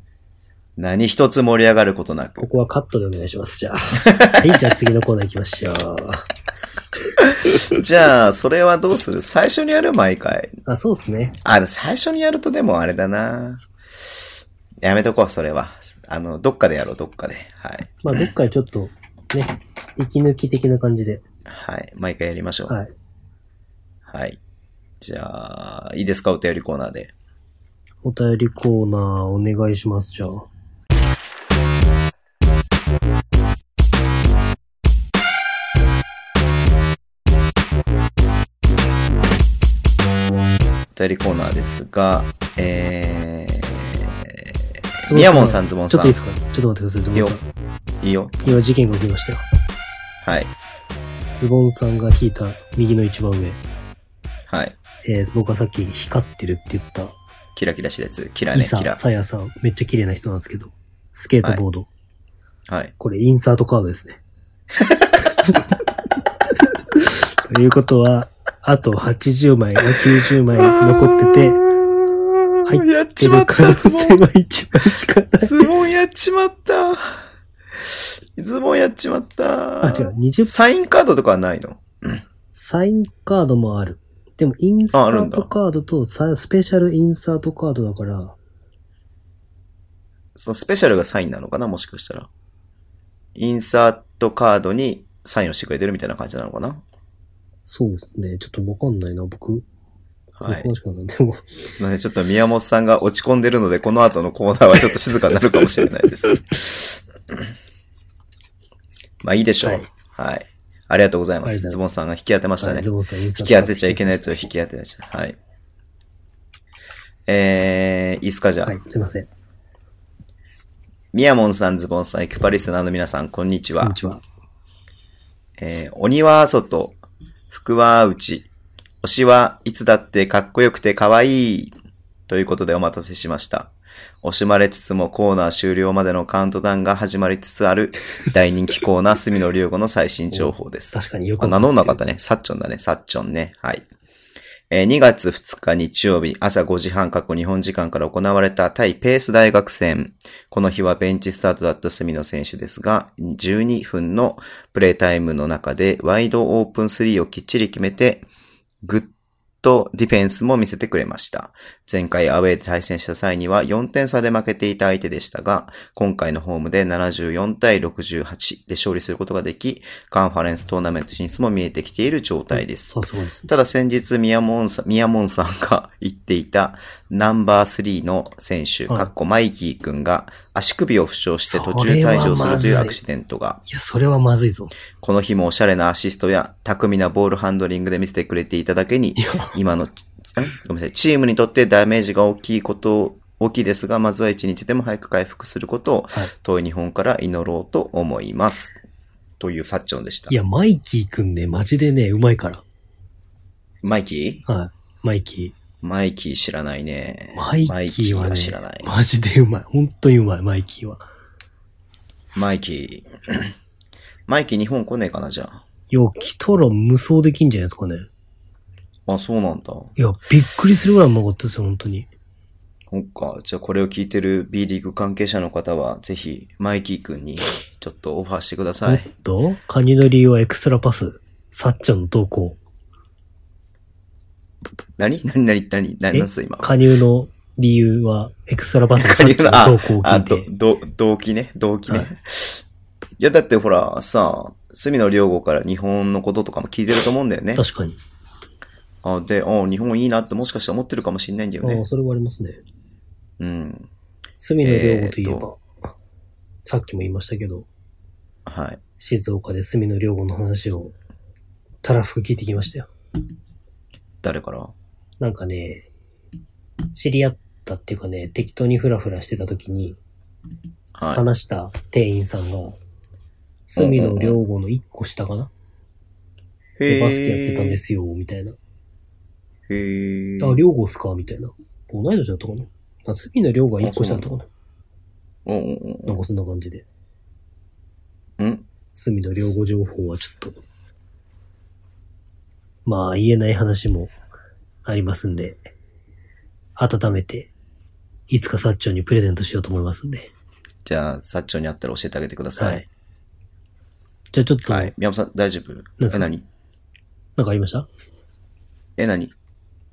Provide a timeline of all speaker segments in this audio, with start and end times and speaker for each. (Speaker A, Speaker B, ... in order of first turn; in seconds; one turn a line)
Speaker A: 0.8-2.5
Speaker B: 2.4-6.3
Speaker A: 4.1-4.5
Speaker A: 7.7-10.5
Speaker B: 10.7-11.4
Speaker A: 11.4-13.6
Speaker A: 14.8-18.2
Speaker B: 18.0-21.2
Speaker A: 21.5-22.8
Speaker A: 24.1-24.4
Speaker A: 25.0-27.1
Speaker B: 28.0-30.5
Speaker A: 40.9-46.2
Speaker B: 45.1-47.5
Speaker A: 48.0-48.6
Speaker B: 48.4-49.4
Speaker A: 50.2-50.5
Speaker B: 51.4-53.6
Speaker A: 54.5-54.8
Speaker B: 55.0-57.1
Speaker A: 57.6-59.0
Speaker B: 58.5-61.9
Speaker A: 62.7-62.9
Speaker B: 63.0-64.2
Speaker A: 64.9-65.3
Speaker B: 66.9-71.6
Speaker A: 70.5-74.2
Speaker B: 72.7-75.7
Speaker A: 75.4-77.2
Speaker A: 77.8-82.2
Speaker B: 79.8-80.5
Speaker B: 82.5-88.4
Speaker A: 84.9-85.5
Speaker A: 90.4-92.3
Speaker A: 93.3-96.8
Speaker B: 97.7-99.7
Speaker A: 100.4-100.7
Speaker B: 100.5-101.5
Speaker A: 101.7-107.0
Speaker A: 109.2-112.9
Speaker B: 111.4-111.9
Speaker B: 112.6-114.5
Speaker A: 113.4-115.4
Speaker A: 117.3-118.8
Speaker B: 118.7-119.3
Speaker A: 121.1-124.0
Speaker B: 123.8-124.2
Speaker A: 125.6-127.0
Speaker A: 127.5-128.5
Speaker A: 129.0-131.7
Speaker A: 132.3-143.9
Speaker B: 140.3-142.0
Speaker A: 144.7-158.3
Speaker A: 158.8-159.1
Speaker A: 159.6-173.0
Speaker B: 172.9-173.5
Speaker A: 173.5-183.6
Speaker B: 181.5-183.0
Speaker B: 183.7-184.7
Speaker A: 185.0-198.8
Speaker B: 189.2-189.5
Speaker A: 199.4-200.3
Speaker B: 200.3-202.6
Speaker A: 203.8-204.4
Speaker B: 204.5-205.5
Speaker A: 205.8-208.9
Speaker B: 207.3-211.0
Speaker A: 212.3-213.5
Speaker A: 214.3-215.6
Speaker B: 215.9-218.1
Speaker A: 219.1-219.9
Speaker B: 220.0-222.1
Speaker A: 222.9-229.1
Speaker B: 228.8-232.6
Speaker A: 235.0-236.7
Speaker B: 236.1-240.5
Speaker A: 239.0-242.6
Speaker A: 243.2-247.7
Speaker B: 247.6-248.0
Speaker A: 249.0-251.8
Speaker B: 251.6-252.6
Speaker A: 253.4-253.9
Speaker B: 254.4-255.6
Speaker A: 254.6-255.5
Speaker B: 256.6-257.7
Speaker A: 258.5-258.8
Speaker B: 259.0-260.9
Speaker B: 261.8-262.9
Speaker A: 264.2-264.7
Speaker B: 265.2-265.9
Speaker B: 266.9-270.0
Speaker A: 270.9-271.2
Speaker B: 271.1-272.8
Speaker B: 273.7-275.5
Speaker A: 273.8-274.4
Speaker A: 276.8-277.8
Speaker B: 276.9-278.6
Speaker A: 279.7-280.6
Speaker B: 280.4-284.5
Speaker A: 283.8-284.3
Speaker A: 285.4-286.2
Speaker B: 286.1-286.9
Speaker A: 288.4-288.7
Speaker B: 288.9-290.6
Speaker B: 292.9-294.1
Speaker B: 294.9-295.7
Speaker B: 296.8-297.5
Speaker B: 298.3-300.3
Speaker A: 300.9-302.9
Speaker B: 302.6-302.9
Speaker B: 304.3-304.9
Speaker A: 304.7-306.5
Speaker B: 306.0-306.3
Speaker B: 307.4-307.9
Speaker A: 309.0-309.3